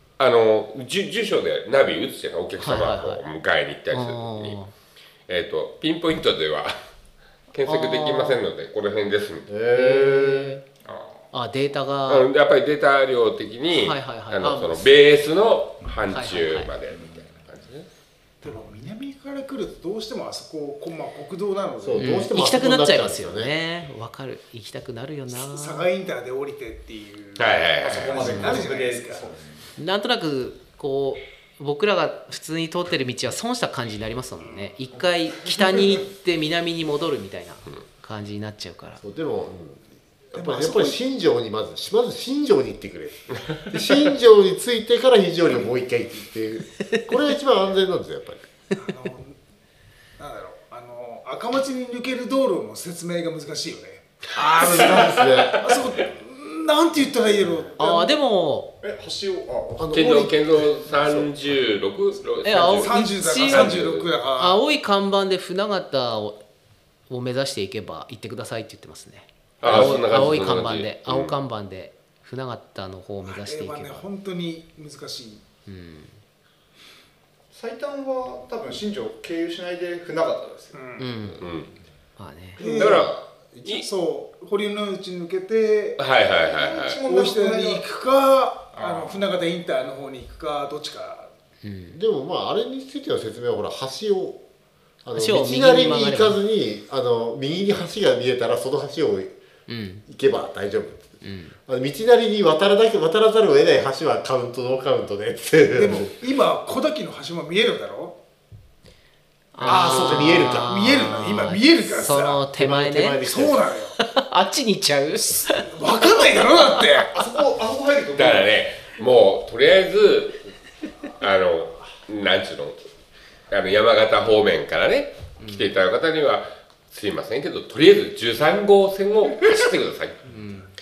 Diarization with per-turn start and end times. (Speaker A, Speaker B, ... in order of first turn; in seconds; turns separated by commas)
Speaker A: 0.2-4.6, Speaker B: 2.6-3.2, Speaker B: 3.9-4.7, Speaker A: 5.3-6.8, Speaker A: 7.5-9.5, Speaker B: 7.7-8.4, Speaker C: 9.5-10.6, Speaker B: 9.7-10.6, Speaker B: 11.3-12.3, Speaker A: 12.1-17.9, Speaker B: 13.7-15.0, Speaker B: 16.1-16.7, Speaker D: 18.4-22.2, Speaker C: 21.8-23.5, Speaker B: 21.9-25.9, Speaker D: 25.3-29.3, Speaker A: 27.4-28.4, Speaker E: 27.8-29.6, Speaker B: 28.2-28.6, Speaker B: 29.8-39.0, Speaker C: 39.0-48.4, Speaker D: 40.4-41.0, Speaker D: 48.8-49.4, Speaker D: 50.2-58.2, Speaker C: 54.4-55.8, Speaker B: 57.8-58.7, Speaker E: 58.8-60.0, Speaker C: 59.7-60.3, Speaker A: 59.9-64.1, Speaker B: 62.4-63.8, Speaker D: 62.7-64.6, Speaker B: 64.4-66.4, Speaker B: 67.1-74.1, Speaker A: 69.6-71.4, Speaker D: 73.2-75.4, Speaker B: 75.7-76.2, Speaker E: 77.5-80.8, Speaker D: 80.7-81.2, Speaker B: 81.0-81.4, Speaker A: 81.4-81.8, Speaker B: 82.2-82.6, Speaker D: 82.6-83.1, Speaker E: 82.6-83.1, Speaker C: 82.7-83.1, Speaker A: 82.7-83.9, Speaker D: 83.7-86.0, Speaker A: 86.0-87.0, Speaker E: 86.4-87.8, Speaker D: 87.0-91.3, Speaker E: 88.7-89.4, Speaker B: 91.6-92.0, Speaker C: 91.9-94.4, Speaker C: 95.0-99.3, Speaker B: 95.1-96.4, Speaker B: 99.7-100.1, Speaker C: 100.1-101.1, Speaker B: 101.2-101.5, Speaker C: 101.7-106.1, Speaker D: 105.7-108.2, Speaker B: 109.5-113.4, Speaker D: 109.6-112.5, Speaker C: 109.6-111.2, Speaker C: 112.6-113.7, Speaker D: 113.2-114.0, Speaker B: 114.0-116.9, Speaker D: 115.5-117.2, Speaker E: 117.1-118.5, Speaker A: 118.2-120.5, Speaker A: 121.2-122.8, Speaker A: 123.5-130.3, Speaker B: 125.4-125.7, Speaker B: 130.3-130.7